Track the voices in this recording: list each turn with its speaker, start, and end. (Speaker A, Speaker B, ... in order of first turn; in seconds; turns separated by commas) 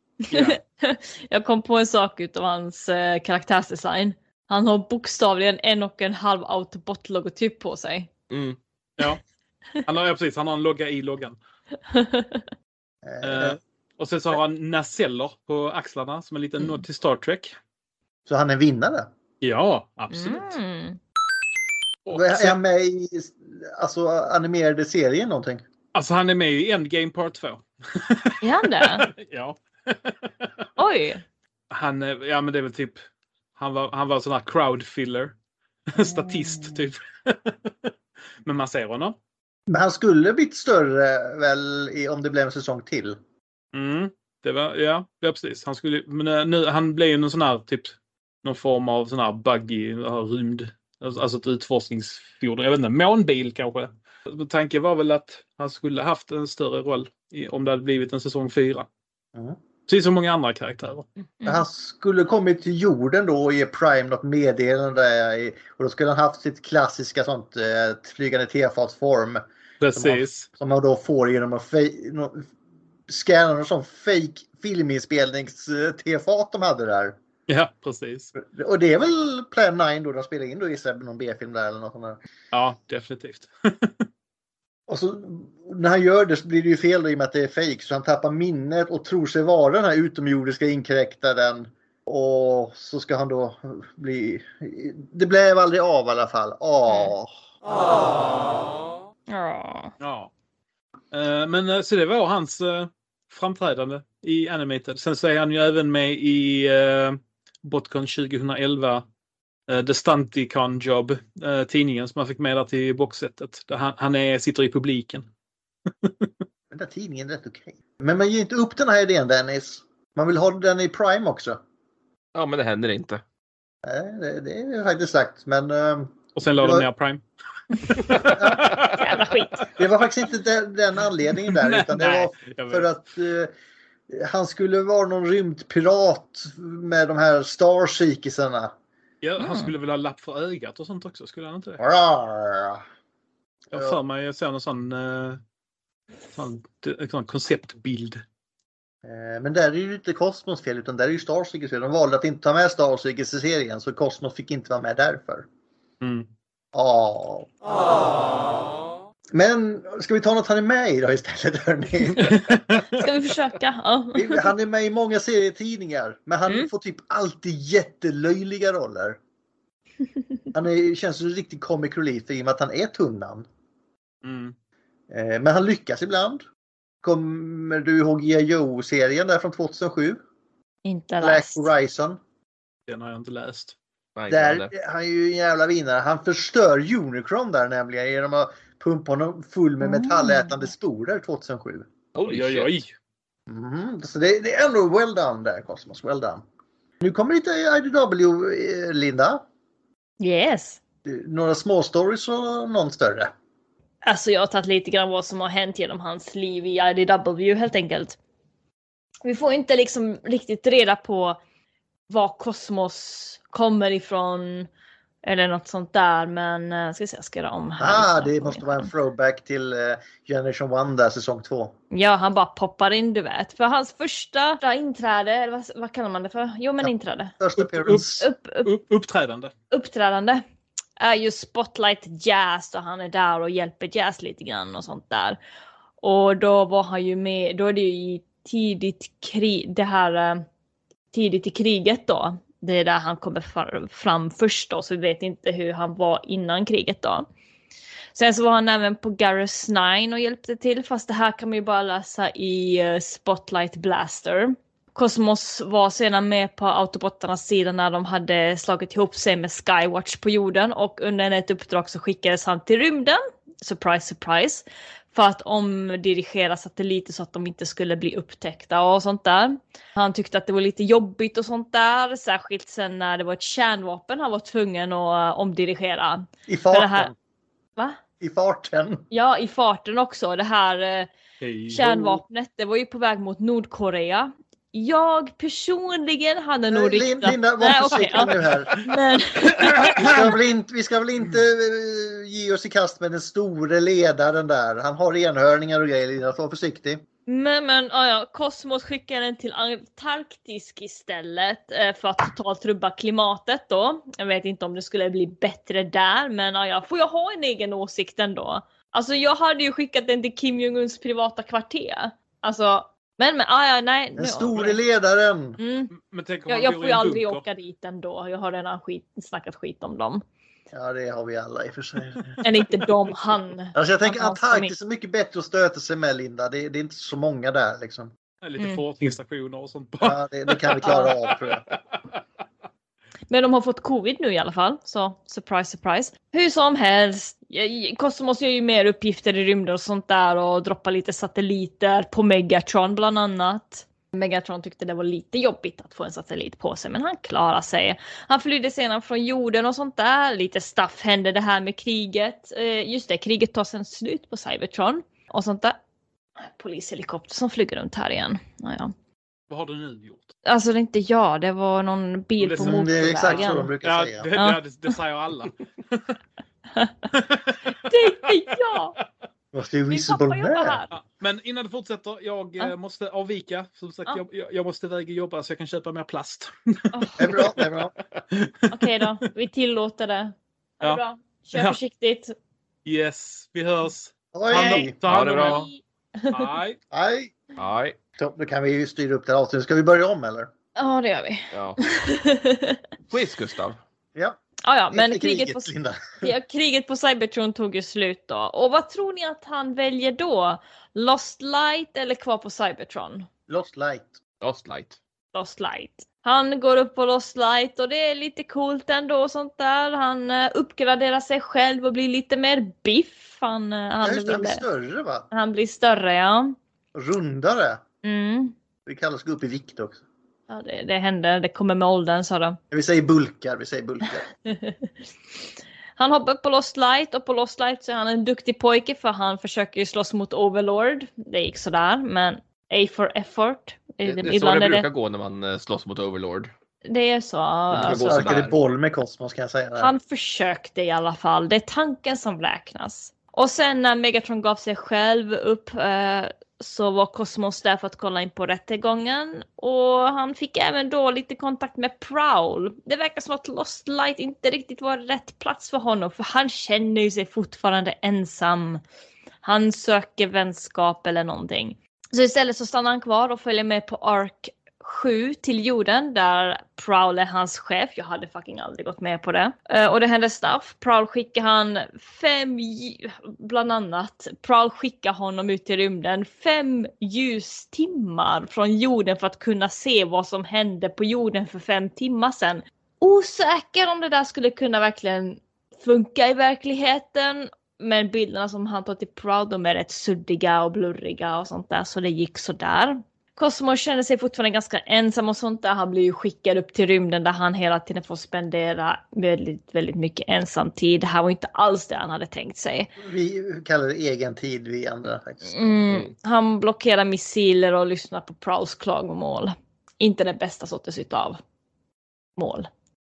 Speaker A: 0.3-8.1, Speaker B: 0.3-0.6, Speaker C: 8.3-8.6, Speaker B: 9.9-11.4, Speaker A: 11.9-12.5, Speaker D: 13.0-13.6, Speaker B: 13.2-17.5, Speaker D: 18.3-19.1, Speaker B: 19.4-20.6, Speaker A: 20.1-21.0, Speaker B: 22.1-22.6, Speaker D: 22.1-25.6, Speaker B: 25.9-30.4, Speaker A: 28.4-29.1, Speaker A: 30.8-31.2, Speaker B: 31.7-33.0, Speaker B: 33.6-35.3, Speaker B: 35.9-37.9, Speaker A: 36.0-36.9, Speaker B: 38.5-39.2, Speaker D: 39.7-43.2, Speaker B: 43.7-58.9, Speaker B: 59.9-61.1, Speaker D: 61.5-69.4, Speaker B: 69.8-70.5, Speaker D: 70.0-72.5, Speaker D: 73.1-77.2, Speaker B: 77.5-78.3, Speaker D: 78.4-82.2, Speaker B: 82.5-83.9, Speaker D: 84.9-97.3, Speaker A: 99.3-99.9, Speaker B: 100.0-100.3, Speaker B: 101.1-109.0, Speaker B: 109.7-115.3, Speaker B: 116.0-116.3, Speaker D: 116.7-121.6, Speaker C: 122.3-123.2, Speaker D: 123.8-126.9, Speaker B: 126.4-127.2, Speaker B: 128.1-128.9, Speaker D: 128.3-128.8, Speaker A: 129.0-129.7, Speaker D: 129.8-133.5, Speaker B: 131.5-132.9, Speaker D: 134.1-138.7, Speaker B: 139.2-141.8, Speaker A: 139.4-139.7, Speaker D: 141.8-142.8, Speaker D: 143.7-144.0, Speaker B: 143.7-145.4, Speaker B: 146.3-148.2, Speaker D: 149.0-155.5, Speaker B: 156.0-156.3, Speaker D: 156.7-157.5, Speaker D: 159.3-162.3, Speaker B: 162.2-163.0, Speaker A: 162.9-164.5, Speaker D: 164.1-169.2, Speaker D: 170.5-173.5, Speaker B: 174.2-174.6, Speaker D: 175.1-176.4, Speaker D: 177.0-180.2, Speaker A: 180.8-181.7, Speaker D: 181.2-182.2, Speaker B: 182.9-183.8, Speaker C: 184.2-184.7, Speaker D: 184.3-191.9, Speaker A: 189.8-190.7, Speaker C: 192.2-192.7, Speaker B: 192.2-192.9, Speaker D: 193.5-196.4, Speaker D: 197.0-199.4, Speaker A: 200.2-200.8, Speaker D: 201.1-203.3, Speaker A: 204.0-208.2, Speaker A: 209.2-211.4, Speaker A: 212.1-214.7, Speaker A: 215.2-218.9, Speaker D: 217.8-221.8, Speaker A: 221.9-227.4, Speaker D: 226.8-228.3, Speaker B: 227.6-229.5, Speaker A: 228.2-228.7, Speaker A: 229.7-230.4, Speaker A: 231.0-235.4, Speaker A: 236.0-240.4, Speaker A: 241.1-247.3, Speaker A: 248.2-277.1, Speaker D: 276.5-277.1, Speaker D: 278.2-279.0, Speaker A: 279.1-281.1, Speaker B: 281.4-282.2, Speaker A: 281.7-290.2, Speaker D: 286.7-288.8, Speaker B: 288.5-288.8, Speaker B: 289.6-290.2, Speaker D: 289.8-297.0, Speaker A: 297.3-314.8, Speaker D: 314.2-315.6, Speaker A: 315.6-315.9, Speaker B: 315.9-317.4, Speaker A: 316.5-320.2, Speaker D: 320.7-322.3, Speaker A: 322.4-324.7, Speaker D: 323.8-328.1, Speaker B: 328.4-331.6, Speaker D: 330.0-331.6, Speaker A: 333.3-355.8, Speaker A: 356.4-358.9, Speaker B: 359.5-360.3, Speaker A: 360.4-363.7, Speaker B: 362.4-366.0, Speaker D: 362.6-364.3, Speaker B: 367.1-367.7, Speaker A: 367.9-369.0, Speaker D: 369.5-370.8, Speaker A: 369.9-370.9, Speaker B: 370.9-376.5, Speaker A: 376.9-377.2, Speaker D: 377.2-377.9, Speaker B: 377.2-377.6, Speaker B: 378.3-379.0, Speaker A: 378.7-382.3, Speaker B: 382.9-385.7, Speaker D: 384.3-385.0, Speaker A: 384.5-386.4, Speaker C: 385.1-385.7, Speaker B: 386.3-386.8, Speaker D: 386.9-387.4, Speaker C: 387.6-388.0, Speaker D: 388.2-390.5, Speaker A: 390.8-392.8, Speaker C: 391.5-391.8, Speaker C: 393.1-393.8, Speaker A: 394.7-395.7, Speaker D: 394.9-396.1, Speaker A: 396.2-403.3, Speaker D: 403.5-404.2, Speaker C: 404.4-405.0, Speaker A: 405.3-414.6, Speaker D: 414.0-415.3, Speaker A: 415.3-416.6, Speaker D: 416.9-417.8, Speaker A: 418.0-418.6, Speaker D: 418.9-420.0, Speaker A: 420.5-422.6, Speaker D: 422.7-424.3, Speaker A: 424.5-424.9, Speaker A: 426.0-434.9, Speaker C: 434.0-436.5, Speaker A: 436.9-438.3, Speaker C: 437.7-438.6, Speaker D: 437.7-439.9, Speaker A: 439.8-458.8, Speaker A: 459.4-502.9, Speaker D: 503.0-505.9, Speaker A: 505.4-511.4, Speaker A: 512.4-512.7